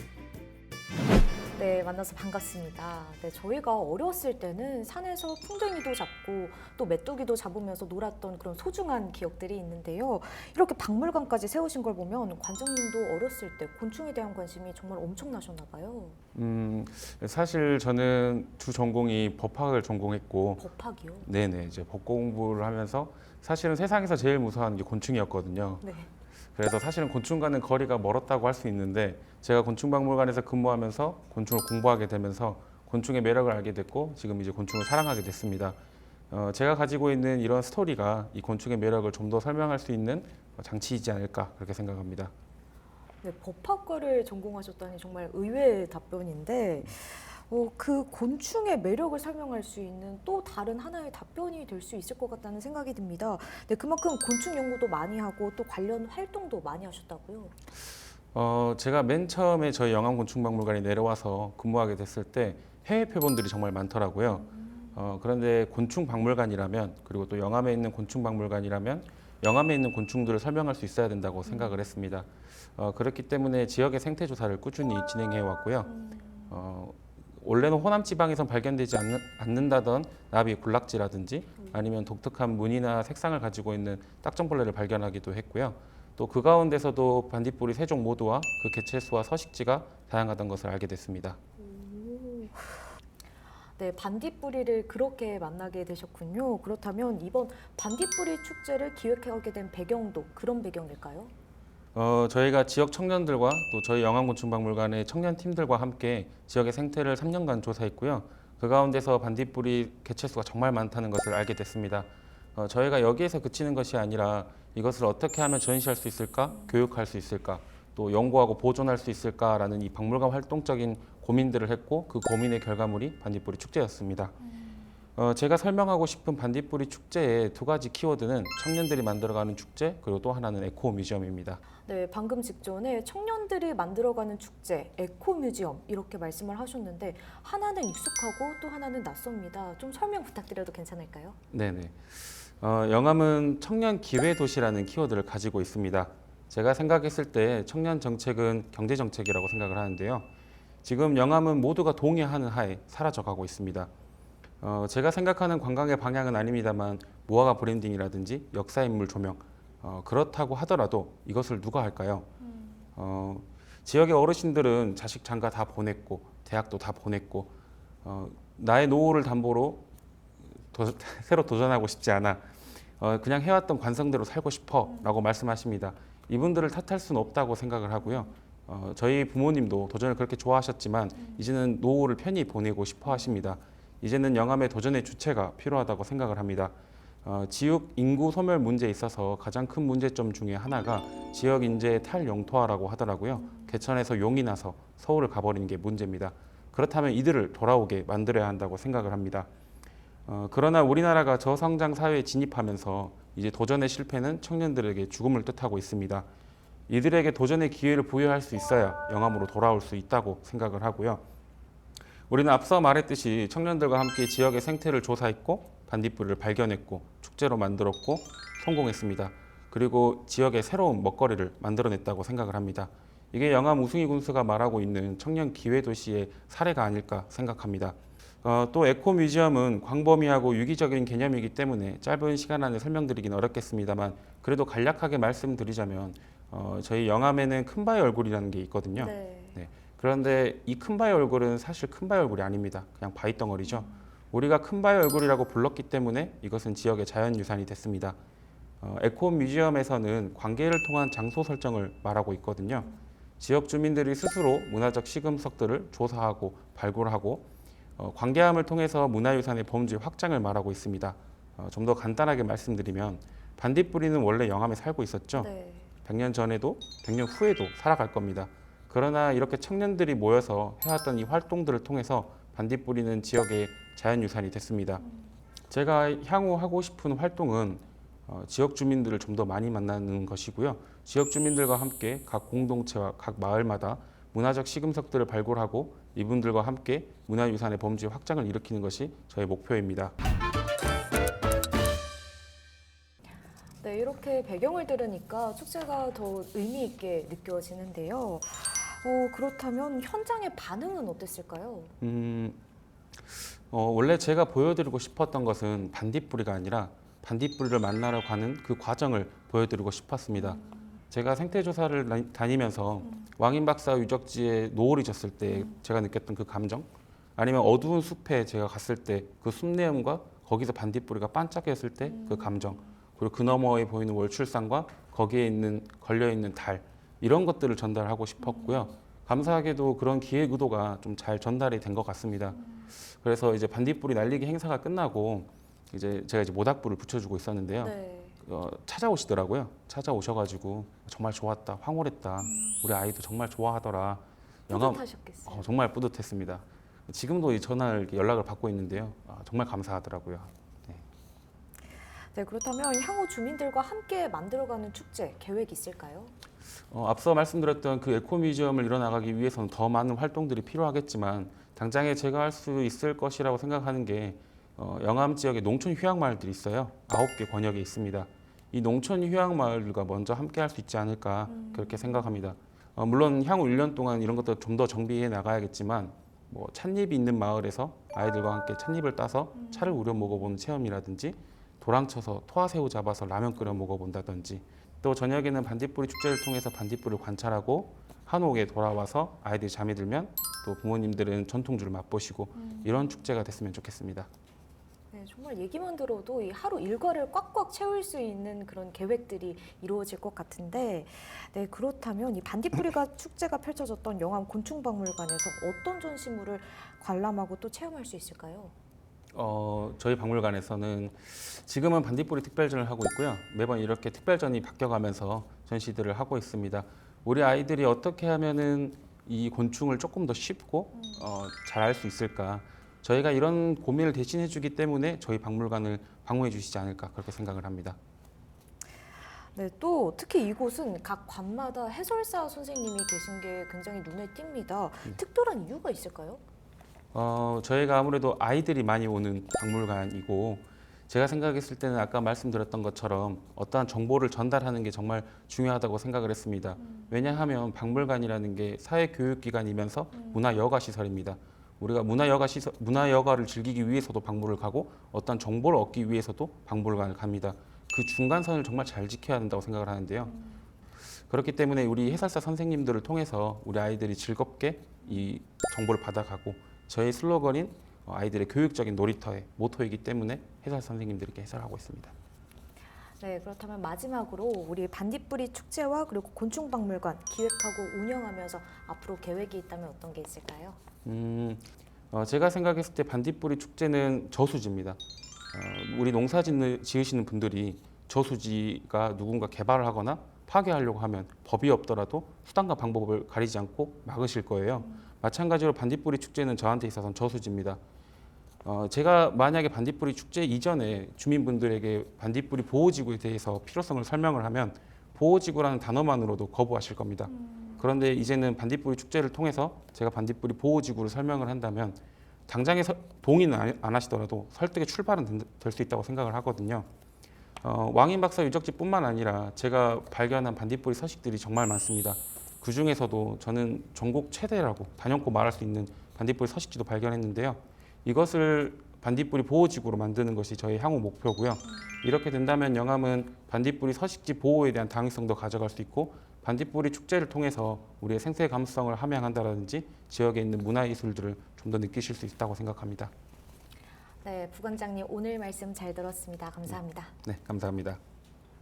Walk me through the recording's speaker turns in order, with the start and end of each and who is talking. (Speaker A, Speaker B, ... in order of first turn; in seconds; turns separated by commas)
Speaker A: 1.5-16.2, Speaker B: 16.3-20.6, Speaker A: 20.6-21.3, Speaker B: 21.2-25.8, Speaker A: 25.8-26.1, Speaker B: 26.5-35.8, Speaker B: 36.3-42.3, Speaker A: 43.2-57.5, Speaker B: 58.3-75.9, Speaker A: 71.5-71.9, Speaker A: 75.9-76.5, Speaker B: 76.5-91.4, Speaker A: 91.6-92.9, Speaker A: 93.8-101.3, Speaker B: 101.9-124.3, Speaker B: 125.2-131.6, Speaker A: 131.8-141.4, Speaker B: 141.5-150.3, Speaker B: 150.8-153.9, Speaker B: 154.6-162.3, Speaker B: 162.9-167.5, Speaker B: 168.0-169.8, Speaker B: 170.7-172.5, Speaker B: 173.0-199.5, Speaker B: 200.3-206.2, Speaker B: 206.9-211.2, Speaker B: 212.3-248.2, Speaker A: 238.9-239.6, Speaker B: 248.8-257.4, Speaker B: 258.0-265.5, Speaker A: 265.4-265.9, Speaker B: 266.0-275.0, Speaker B: 275.7-290.1, Speaker A: 293.8-301.9, Speaker B: 302.0-302.6, Speaker B: 303.3-337.9, Speaker A: 322.2-322.8, Speaker A: 328.6-328.9, Speaker A: 337.8-338.4, Speaker B: 338.4-351.0, Speaker A: 344.7-345.7, Speaker A: 352.3-356.3, Speaker B: 356.9-394.3, Speaker A: 392.6-393.1, Speaker A: 395.1-408.7, Speaker B: 409.3-428.0, Speaker A: 429.5-436.4, Speaker B: 437.1-460.4, Speaker B: 461.3-472.1, Speaker A: 473.2-480.8, Speaker B: 481.0-485.0, Speaker B: 485.5-497.8, Speaker B: 498.6-516.9, Speaker B: 517.6-543.1, Speaker A: 544.2-547.1, Speaker B: 547.2-548.0